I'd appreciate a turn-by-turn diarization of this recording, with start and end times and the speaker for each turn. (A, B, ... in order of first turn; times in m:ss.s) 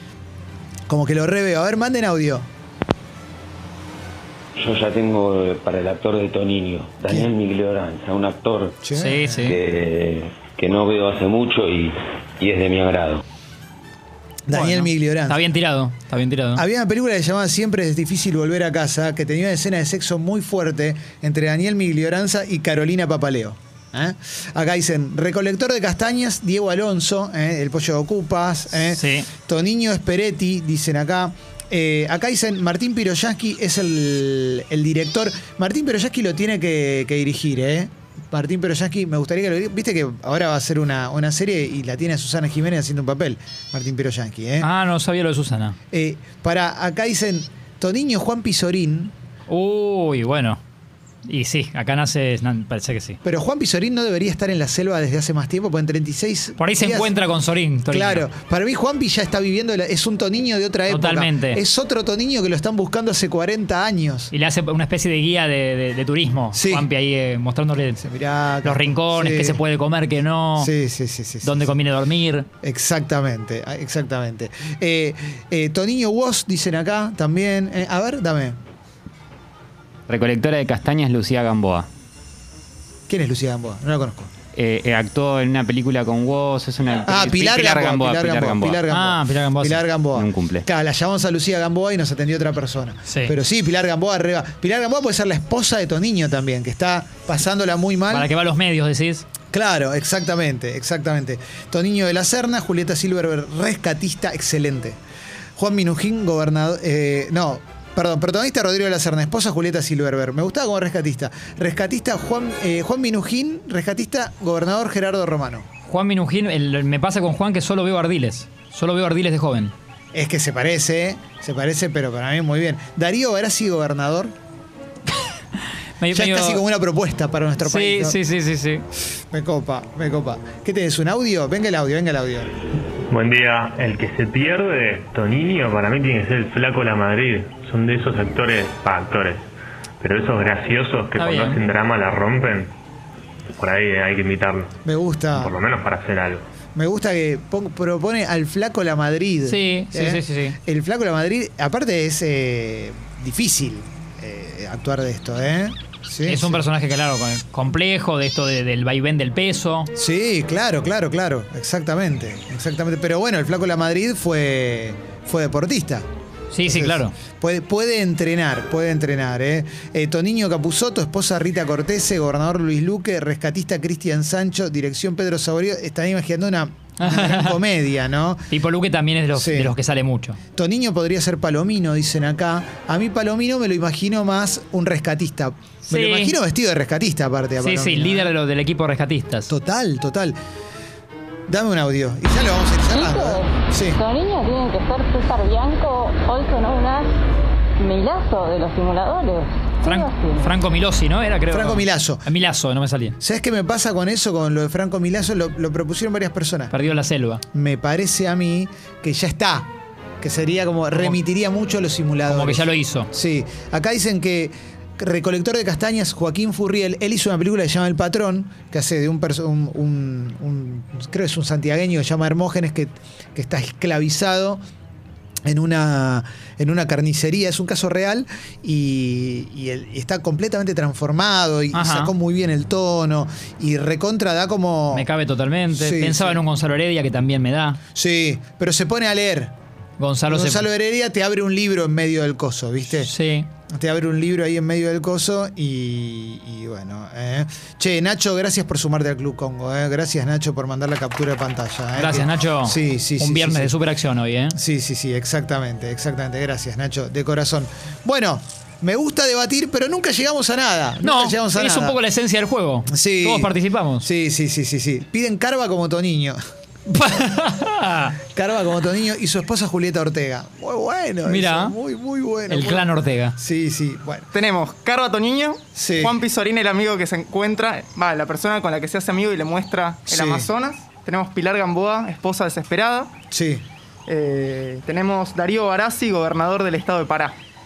0:00.9-0:02.5 A
0:04.6-0:08.8 B
0:08.8-0:09.5 A
0:08.9-0:09.6 C
0:09.4-0:13.2 B
0:14.5-0:15.4 A
0:14.5-0:16.6 C
0:16.6-0:44.7 A
0:28.8-0:29.3 C
0:44.6-0:45.8 C
0:45.9-0:49.1 A
0:49.5-0:50.6 C
0:51.3-0:53.2 C
0:53.2-0:57.1 A
0:56.6-0:58.2 C
0:57.9-1:04.3 A
1:00.9-1:01.6 C
1:04.3-1:08.0 C
1:06.5-1:06.9 A
1:08.0-1:09.6 A
1:08.6-1:10.7 C
1:10.6-1:11.8 A
1:11.4-1:12.5 C
1:12.6-1:18.6 A
1:20.1-1:21.9 D
1:23.1-1:24.3 A
1:24.5-1:28.9 D
1:27.0-1:38.3 A
1:28.9-1:29.8 C
1:30.2-1:30.7 D
1:33.1-1:33.3 C
1:38.1-1:39.2 C
1:39.5-1:45.0 A
1:45.6-1:55.7 A
1:55.9-1:59.7 C
2:00.1-2:04.3 A
2:06.0-2:06.6 C
2:06.1-2:08.2 A
2:07.6-2:08.8 C
2:09.3-2:12.5 A
2:13.1-2:19.4 E
2:20.0-2:22.7 E
2:21.2-2:21.6 C
2:23.5-2:24.7 E
2:24.8-2:25.5 A
2:25.4-2:26.4 E
2:26.8-2:36.6 A
2:29.5-2:30.6 C
2:36.2-2:39.9 C
2:40.0-2:46.0 A
2:46.5-2:47.1 C
2:46.6-2:58.5 A
2:57.0-2:57.6 C
2:58.5-3:00.4 C
2:59.4-2:59.7 A
3:00.6-3:08.3 A
3:05.9-3:06.4 C
3:07.6-3:09.5 C
3:09.5-3:10.4 A
3:11.5-3:14.0 A
3:13.0-3:13.4 F
3:14.0-3:17.1 F
3:17.8-3:20.5 F
3:19.8-3:23.2 C
3:21.5-3:22.2 A
3:23.2-3:26.7 A
3:26.7-3:27.4 C
3:27.5-3:29.7 A
3:30.2-3:44.6 A
3:32.3-3:33.1 C
3:45.5-3:55.1 A
3:51.7-3:52.1 C
3:54.9-3:57.8 C
3:55.7-3:56.4 A
3:57.9-3:59.5 A
4:00.0-4:00.7 C
4:00.3-4:03.1 A
4:03.0-4:03.5 C
4:03.7-4:13.8 A
4:12.0-4:14.6 C
4:14.5-4:22.0 A
4:21.0-4:24.1 C
4:22.9-4:26.4 A
4:26.9-4:28.2 C
4:28.3-4:34.3 A
4:31.2-4:31.8 C
4:32.5-4:33.4 C
4:34.3-4:43.1 G
4:35.7-4:36.2 A
4:40.1-4:40.5 A
4:43.3-4:43.6 A
4:44.1-4:47.4 G